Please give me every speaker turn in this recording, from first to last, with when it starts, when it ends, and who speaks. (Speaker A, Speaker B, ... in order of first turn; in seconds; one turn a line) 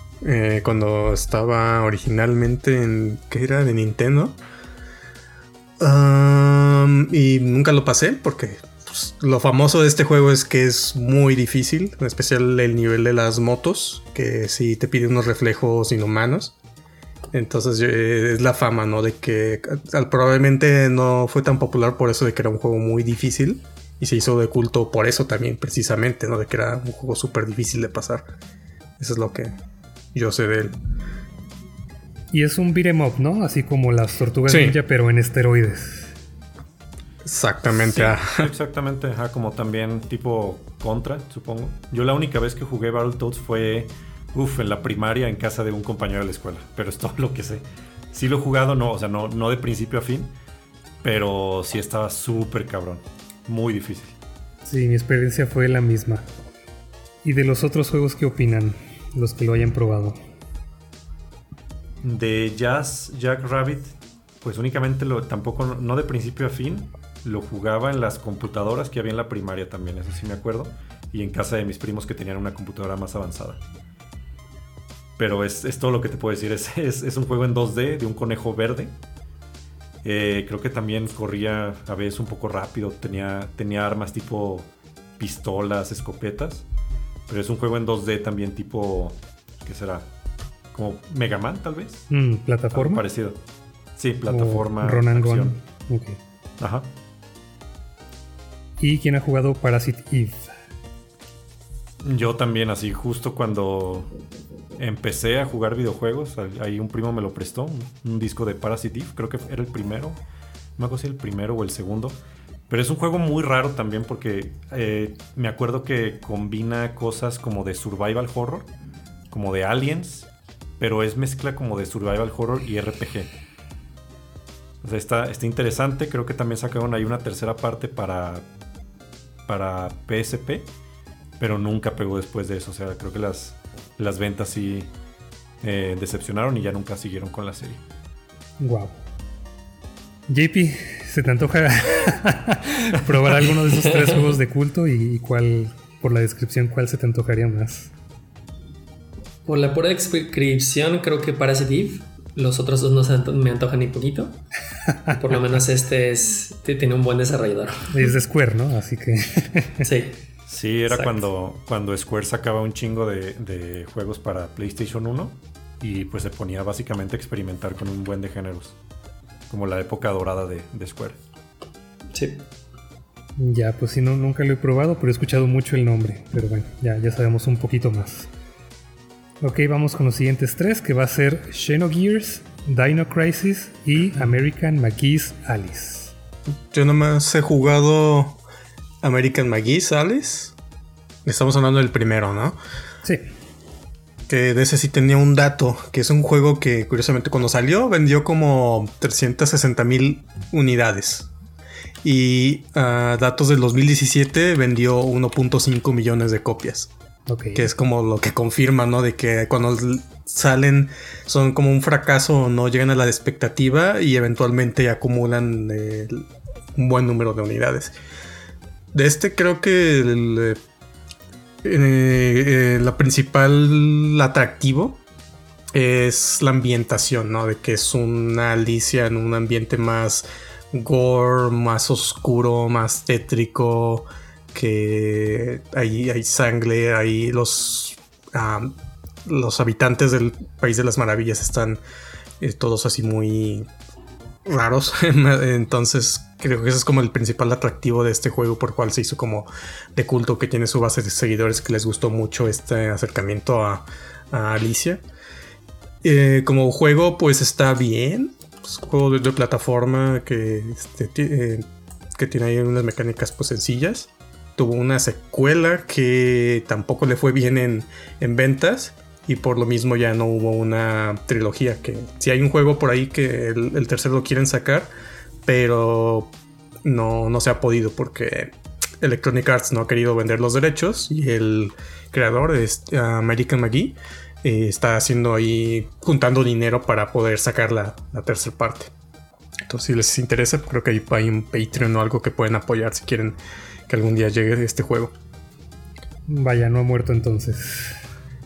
Speaker A: 0.2-4.4
Speaker A: 5.8-16.5
Speaker A: 17.3-28.3
Speaker A: 29.0-29.5
Speaker A: 30.1-30.8
Speaker B: 32.3-36.1
Speaker A: 34.5-34.8
Speaker A: 37.2-38.5
Speaker C: 37.8-50.3
Speaker C: 51.0-54.1
Speaker B: 54.6-56.2
Speaker B: 57.2-60.2
Speaker C: 62.0-73.6
Speaker C: 75.2-78.9
Speaker C: 80.0-84.7
Speaker C: 85.2-86.6
Speaker C: 87.3-90.0
Speaker C: 90.7-92.1
Speaker B: 92.1-93.0
Speaker C: 92.7-93.4
Speaker C: 94.0-95.6
Speaker B: 94.3-96.2
Speaker C: 96.6-96.9
Speaker B: 98.8-100.5
Speaker C: 102.0-104.1
Speaker C: 104.8-110.2
Speaker C: 110.8-112.2
Speaker C: 112.7-118.7
Speaker C: 119.3-123.3
Speaker C: 124.8-128.4
Speaker C: 129.5-130.7
Speaker C: 131.4-134.9
Speaker C: 135.6-137.8
Speaker B: 138.6-138.9
Speaker B: 140.3-147.9
Speaker D: 149.4-154.4
Speaker D: 155.1-157.9
Speaker B: 157.9-159.8
Speaker D: 159.8-160.2
Speaker C: 160.5-168.8
Speaker D: 160.9-161.2
Speaker C: 169.5-171.2
Speaker D: 172.1-172.4
Speaker B: 173.4-178.3
Speaker B: 179.4-186.1
Speaker A: 186.7-188.4
Speaker A: 189.0-190.5
Speaker A: 191.2-192.6
Speaker A: 194.3-201.3
Speaker A: 202.0-206.9
Speaker B: 207.3-207.7
Speaker A: 207.5-217.9
Speaker A: 218.9-220.6
Speaker A: 221.6-225.0
Speaker A: 225.7-238.7
Speaker A: 239.2-241.8
Speaker A: 242.4-243.7
Speaker A: 244.4-255.0
Speaker A: 256.0-274.9
Speaker A: 275.4-276.3
Speaker A: 276.8-288.9
Speaker A: 289.7-293.4
Speaker A: 293.9-295.1
Speaker B: 296.3-298.0